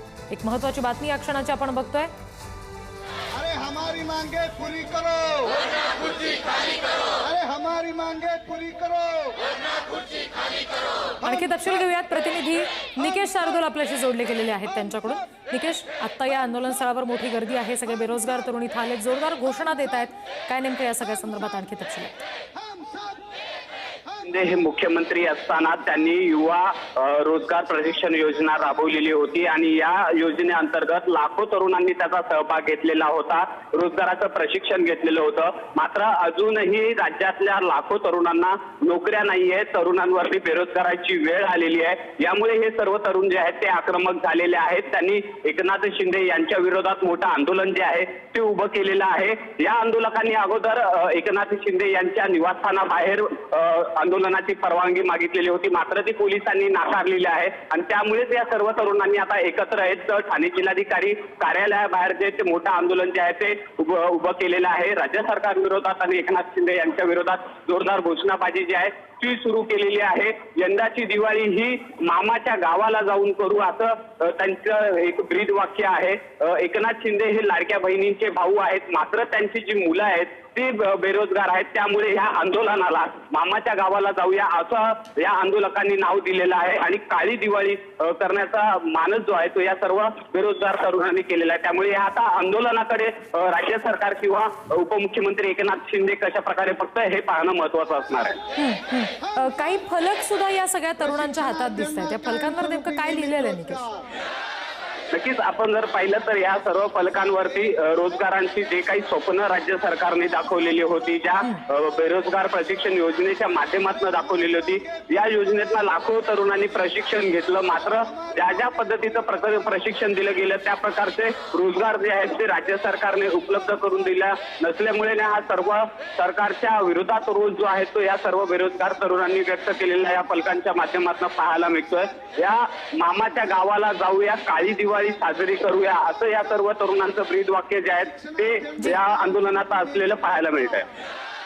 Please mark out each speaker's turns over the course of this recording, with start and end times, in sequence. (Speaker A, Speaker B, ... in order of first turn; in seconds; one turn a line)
Speaker A: 0.3-2.1
Speaker B: 3.4-5.6
Speaker B: 7.2-9.4
Speaker A: 11.2-22.1
Speaker C: 24.2-98.4
Speaker A: 98.6-103.9
Speaker C: 105.1-140.9